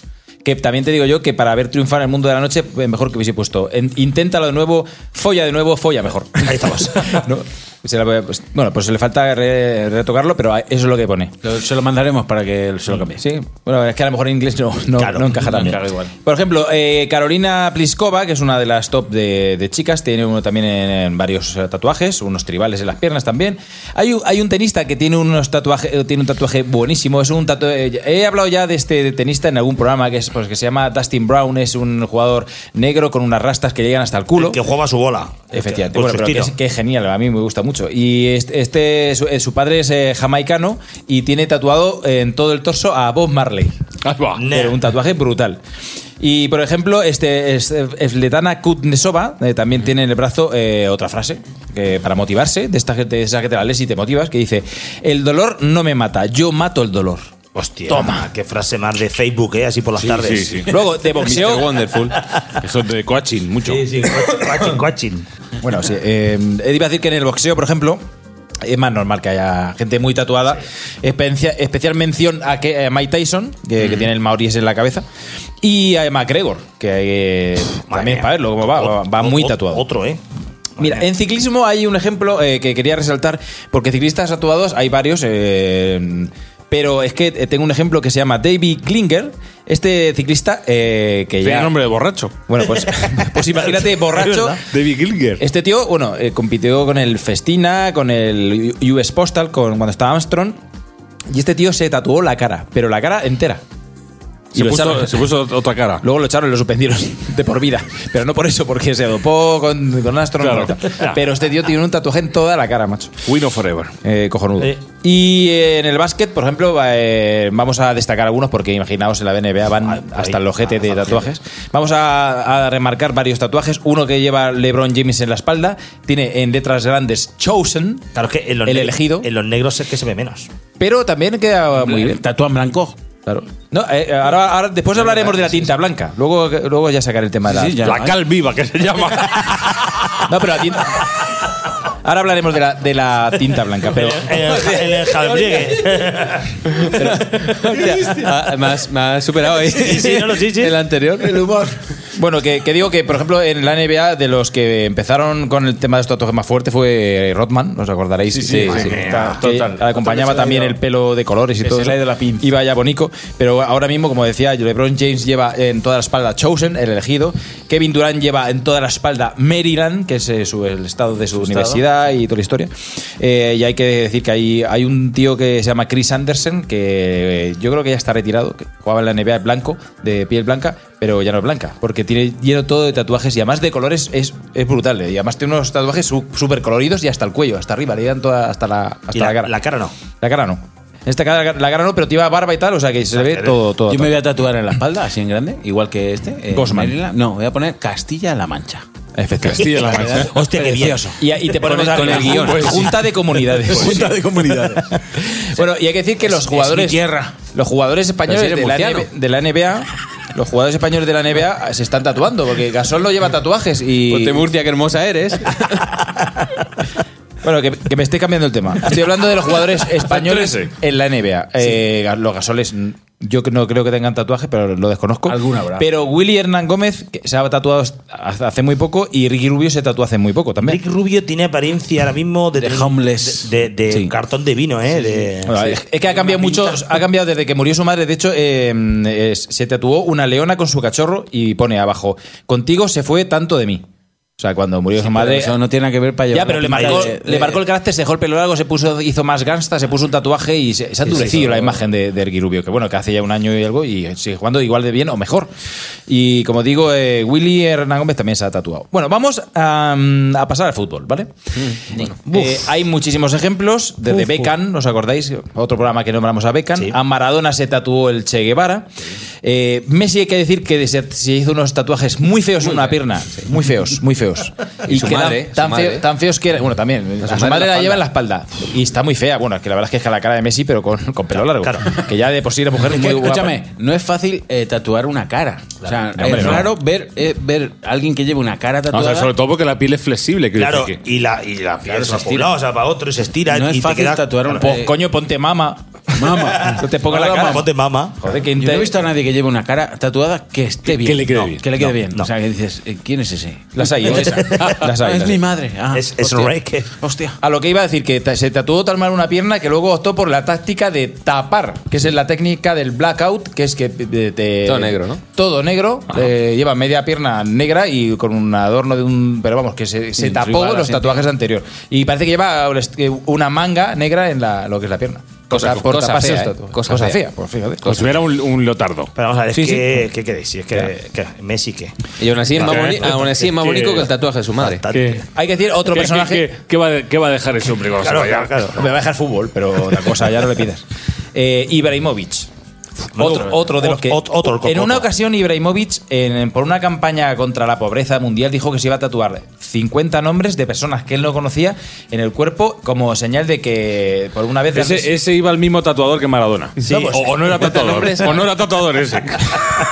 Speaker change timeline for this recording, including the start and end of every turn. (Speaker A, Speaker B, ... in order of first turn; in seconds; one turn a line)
Speaker A: 0.4-11.3
Speaker B: 6.4-7.2
Speaker C: 11.4-13.2
Speaker A: 13.1-34.6
Speaker B: 15.0-15.8
Speaker C: 15.4-16.1
Speaker B: 34.4-36.5
Speaker A: 35.5-43.7
Speaker D: 44.0-44.4
Speaker B: 44.4-44.7
Speaker A: 44.5-45.6
Speaker A: 46.2-57.3
Speaker B: 57.5-60.7
Speaker A: 57.9-58.3
Speaker D: 60.0-60.7
Speaker A: 60.7-61.8
Speaker E: 61.1-62.2
Speaker D: 62.6-63.8
Speaker B: 63.7-65.2
Speaker A: 65.6-68.0
Speaker A: 68.6-75.0
Speaker A: 75.6-79.8
Speaker B: 77.9-80.2
Speaker B: 80.8-81.0
Speaker A: 80.8-91.7
Speaker D: 91.4-92.4
Speaker A: 92.5-94.6
Speaker B: 93.3-94.6
Speaker D: 94.7-95.4
Speaker A: 95.4-100.6
Speaker A: 101.3-103.6
Speaker A: 104.5-105.2
Speaker D: 104.5-106.0
Speaker A: 106.0-113.1
Speaker D: 110.4-111.2
Speaker D: 113.2-113.9
Speaker A: 114.0-128.1
Speaker B: 119.9-121.3
Speaker B: 128.1-130.5
Speaker A: 128.6-129.3
Speaker A: 130.8-132.2
Speaker C: 131.8-132.9
Speaker A: 133.2-138.1
Speaker C: 137.5-138.1
Speaker D: 137.8-140.1
Speaker A: 140.2-141.1
Speaker A: 142.0-144.3
Speaker B: 143.9-146.5
Speaker E: 146.9-151.4
Speaker C: 147.9-148.3
Speaker B: 149.7-150.7
Speaker C: 151.2-151.8
Speaker A: 152.1-189.5
Speaker C: 158.3-160.7
Speaker E: 158.5-159.1
Speaker B: 158.8-159.4
Speaker C: 161.6-162.4
Speaker C: 171.4-171.8
Speaker B: 189.1-189.9
Speaker A: 190.2-194.2
Speaker B: 193.2-193.6
Speaker C: 193.9-198.8
Speaker A: 196.5-196.9
Speaker A: 199.2-199.9
Speaker D: 199.5-200.3
Speaker B: 199.5-201.1
Speaker C: 199.9-201.1
Speaker A: 201.2-204.4
Speaker E: 201.6-202.8
Speaker C: 201.8-202.8
Speaker D: 202.4-202.9
Speaker C: 203.5-204.9
Speaker A: 205.4-214.5
Speaker C: 206.2-207.3
Speaker E: 208.3-209.1
Speaker E: 214.1-215.8
Speaker A: 217.4-230.8
Speaker D: 220.1-220.7
Speaker C: 225.3-225.9
Speaker B: 230.6-235.6
Speaker C: 232.5-234.1
Speaker A: 235.4-243.8
Speaker C: 236.2-236.8
Speaker A: 244.4-245.6
Speaker C: 245.0-247.6
Speaker A: 246.3-255.5
Speaker B: 246.7-247.1
Speaker A: 256.1-261.3
Speaker A: 261.9-268.9
Speaker B: 262.3-262.6
Speaker A: 269.4-283.6
Speaker E: 272.6-272.9
Speaker E: 274.9-276.0
Speaker E: 277.2-278.0
Speaker B: 281.6-281.9
Speaker C: 282.8-289.3
Speaker A: 286.1-286.7
Speaker D: 288.9-291.0
Speaker B: 290.5-294.4
Speaker C: 291.8-292.5
Speaker C: 293.5-294.9
Speaker A: 294.5-297.6
Speaker C: 296.1-297.6
Speaker B: 297.4-298.2
Speaker A: 298.2-298.9
Speaker C: 298.5-307.4
Speaker D: 300.9-301.6
Speaker A: 303.8-305.4
Speaker B: 304.1-304.8
Speaker B: 305.9-306.9
Speaker A: 307.4-328.1
Speaker E: 314.6-315.2
Speaker C: 320.2-321.0
Speaker E: 325.5-327.2
Speaker D: 327.8-329.1
Speaker B: 329.1-331.9
Speaker E: 332.2-334.8
Speaker B: 332.5-334.0
Speaker D: 332.6-334.1
Speaker B: 334.6-335.2
Speaker D: 334.9-335.2
Speaker A: 335.3-336.5
Speaker D: 335.9-338.7
Speaker B: 338.0-338.8
Speaker A: 338.7-340.8
Speaker A: 341.3-342.5
Speaker A: 343.1-355.1
Speaker B: 343.1-345.1
Speaker D: 354.7-359.6
Speaker A: 356.8-357.8
Speaker E: 357.4-358.3